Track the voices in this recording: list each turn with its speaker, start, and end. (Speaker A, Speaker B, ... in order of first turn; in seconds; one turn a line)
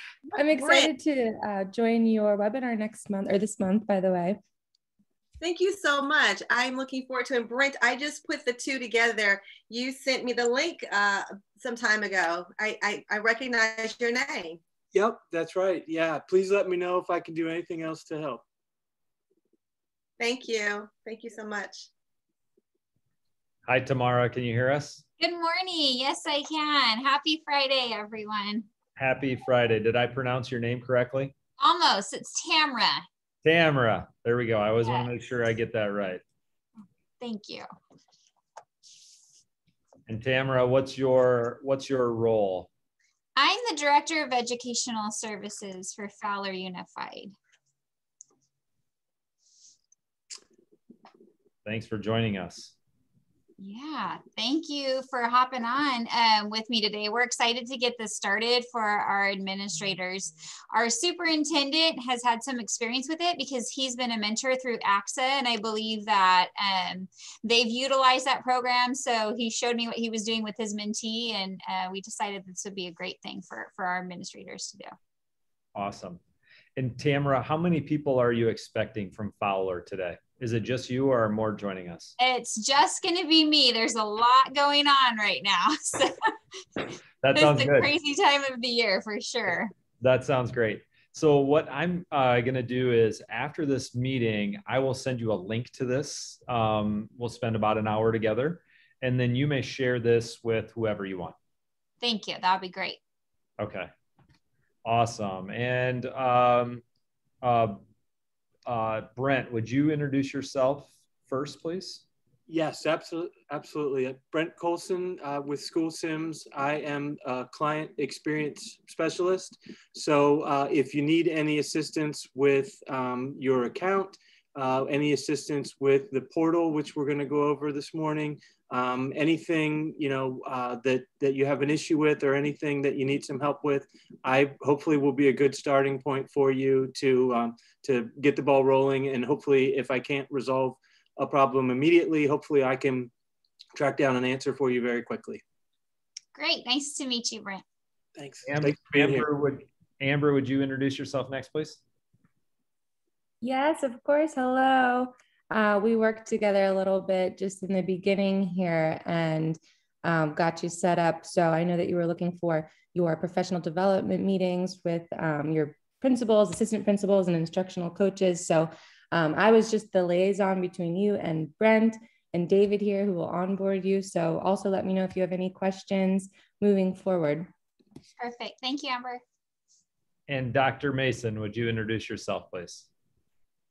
Speaker A: 0.3-4.4
Speaker B: 0.5-0.9
Speaker B: 5.4-14.6
Speaker C: 14.9-18.4
Speaker B: 20.2-21.9
Speaker D: 23.6-25.0
Speaker E: 25.2-28.7
Speaker D: 29.0-31.3
Speaker E: 31.6-33.0
Speaker D: 33.4-36.2
Speaker E: 34.8-35.1
Speaker E: 37.2-37.7
Speaker D: 40.1-42.7
Speaker E: 43.4-47.3
Speaker D: 51.6-52.7
Speaker E: 53.6-74.9
Speaker D: 75.7-76.2
Speaker D: 76.8-82.1
Speaker E: 82.2-86.1
Speaker D: 87.2-87.9
Speaker E: 87.3-89.7
Speaker D: 90.0-101.3
Speaker E: 102.0-103.0
Speaker D: 103.6-103.9
Speaker D: 104.8-106.8
Speaker D: 107.4-107.8
Speaker D: 108.7-112.0
Speaker C: 112.5-143.1
Speaker C: 143.7-145.4
Speaker E: 146.3-147.6
Speaker C: 148.2-149.2
Speaker D: 148.4-151.8
Speaker A: 153.4-177.5
Speaker E: 178.2-179.2
Speaker D: 180.3-182.8